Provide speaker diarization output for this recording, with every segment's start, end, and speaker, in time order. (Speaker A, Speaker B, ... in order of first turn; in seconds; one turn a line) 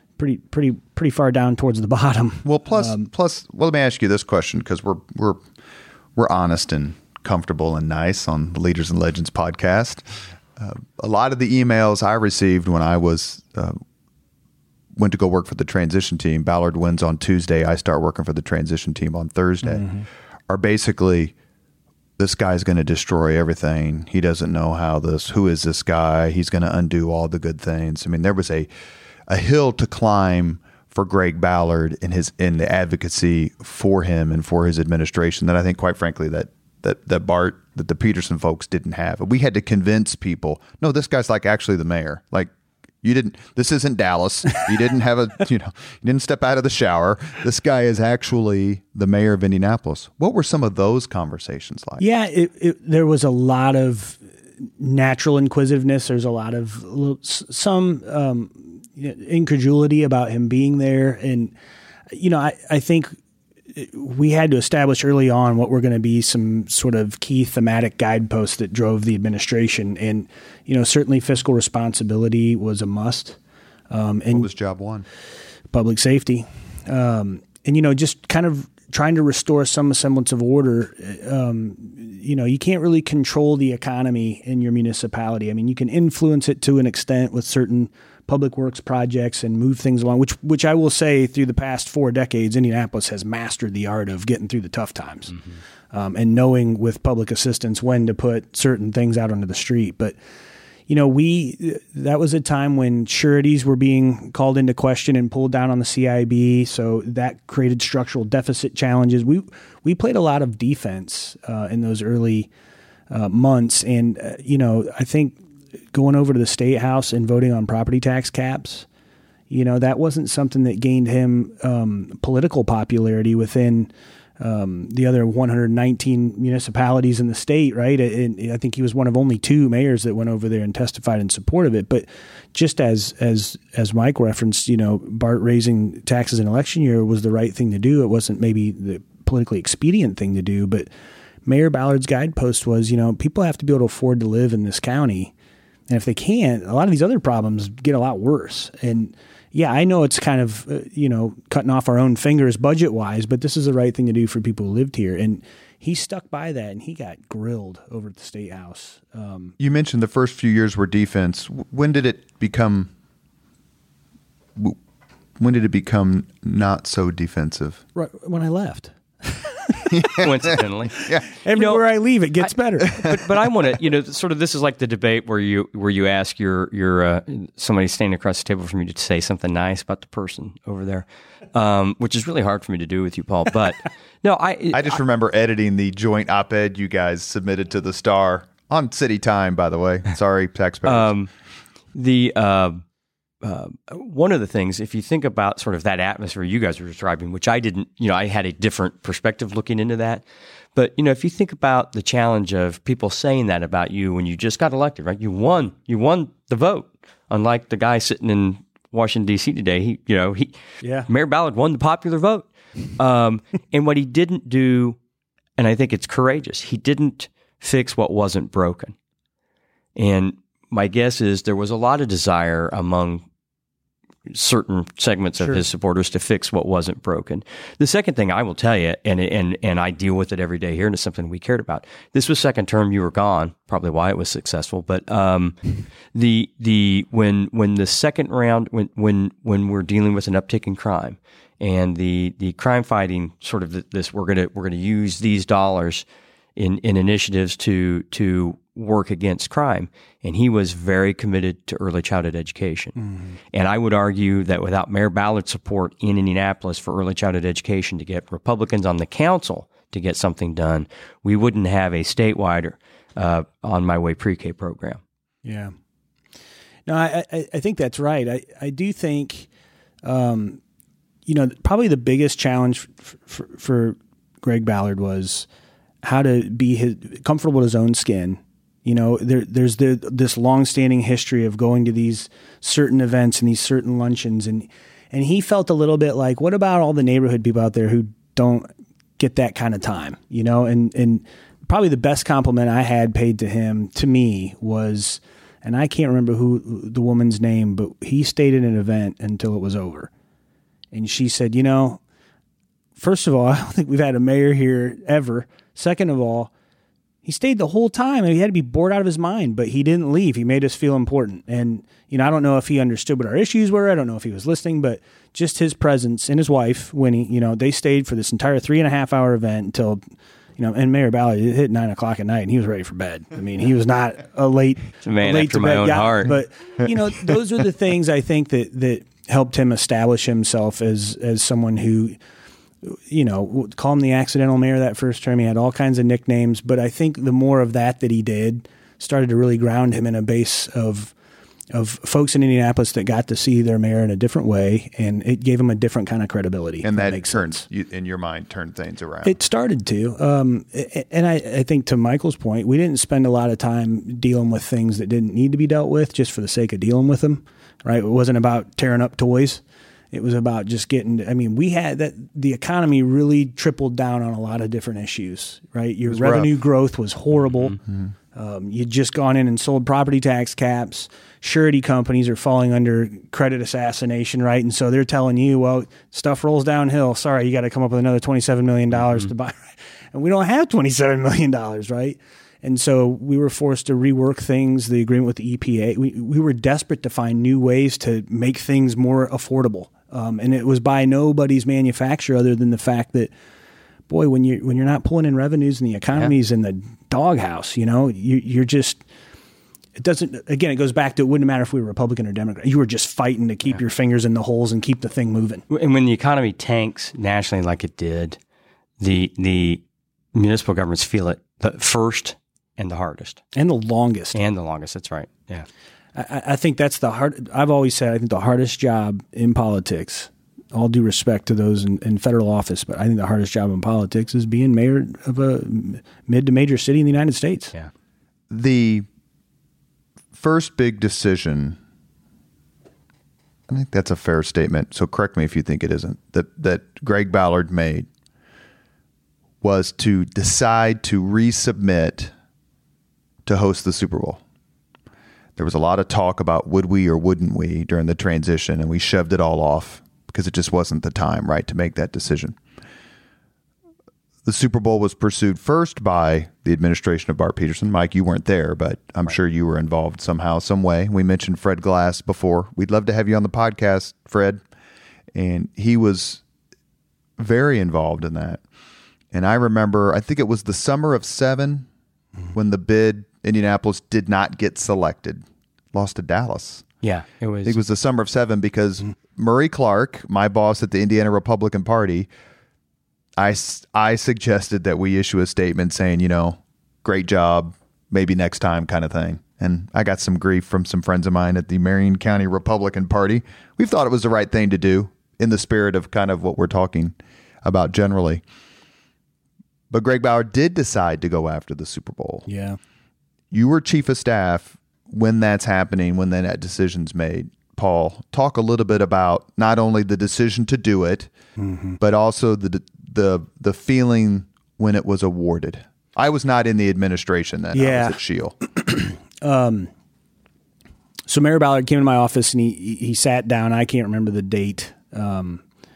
Speaker A: 0.2-3.1
Speaker B: 2.4-5.4
Speaker B: 6.2-10.0
Speaker B: 10.6-13.8
Speaker B: 14.9-19.9
Speaker A: 19.7-20.0
Speaker B: 20.5-21.3
Speaker B: 22.2-28.7
Speaker B: 29.3-42.5
Speaker B: 43.0-52.0
Speaker A: 52.0-54.2
Speaker A: 54.8-61.5
Speaker A: 62.1-63.1
Speaker A: 63.7-73.4
Speaker A: 73.9-74.5
Speaker B: 74.3-75.0
Speaker A: 75.7-95.3
Speaker A: 95.9-100.1
Speaker A: 100.9-112.5
Speaker A: 113.1-115.4
Speaker A: 115.9-118.9
Speaker A: 119.5-140.9
Speaker A: 141.4-145.3
Speaker A: 145.9-159.6
Speaker B: 159.6-162.9
Speaker B: 165.4-167.8
Speaker A: 167.9-170.1
Speaker B: 169.9-171.2
Speaker C: 170.1-171.8
Speaker A: 171.4-173.0
Speaker C: 172.4-185.0
Speaker B: 184.7-191.1
Speaker C: 190.8-191.3
Speaker C: 191.9-192.8
Speaker C: 193.4-200.2
Speaker C: 200.7-215.0
Speaker A: 210.8-211.1
Speaker C: 215.6-218.9
Speaker C: 219.9-223.2
Speaker C: 224.3-246.0
Speaker C: 246.6-265.0
Speaker A: 265.4-265.7
Speaker A: 266.9-269.5
Speaker A: 270.0-270.6
Speaker A: 271.2-275.5
Speaker A: 276.0-300.1
Speaker A: 300.9-302.0
Speaker A: 303.0-306.5
Speaker A: 307.2-320.0
Speaker A: 320.6-332.1
Speaker C: 325.0-326.3
Speaker A: 332.8-341.1
Speaker A: 341.7-347.6
Speaker B: 346.8-349.3
Speaker A: 349.2-359.6
Speaker A: 360.1-367.8
Speaker B: 366.1-366.5
Speaker C: 367.5-367.8
Speaker A: 368.3-393.3
Speaker A: 394.1-399.0
Speaker A: 399.9-405.6
Speaker C: 405.7-408.4
Speaker C: 409.0-409.8
Speaker C: 410.3-413.4
Speaker A: 413.5-414.4
Speaker C: 414.3-415.7
Speaker A: 416.1-427.7
Speaker B: 428.5-429.1
Speaker B: 430.3-431.8
Speaker B: 433.7-438.1
Speaker B: 439.6-442.3
Speaker B: 443.4-444.4
Speaker B: 445.6-452.6
Speaker B: 454.4-464.6
Speaker B: 465.3-466.4
Speaker B: 467.4-468.6
Speaker B: 469.3-471.9
Speaker B: 472.5-476.9
Speaker C: 477.0-477.8
Speaker B: 477.6-482.3
Speaker B: 483.4-498.4
Speaker B: 499.9-502.4
Speaker A: 502.5-502.8
Speaker B: 503.5-511.3
Speaker A: 511.6-512.0
Speaker B: 512.0-518.5
Speaker A: 517.7-519.9
Speaker A: 521.3-525.6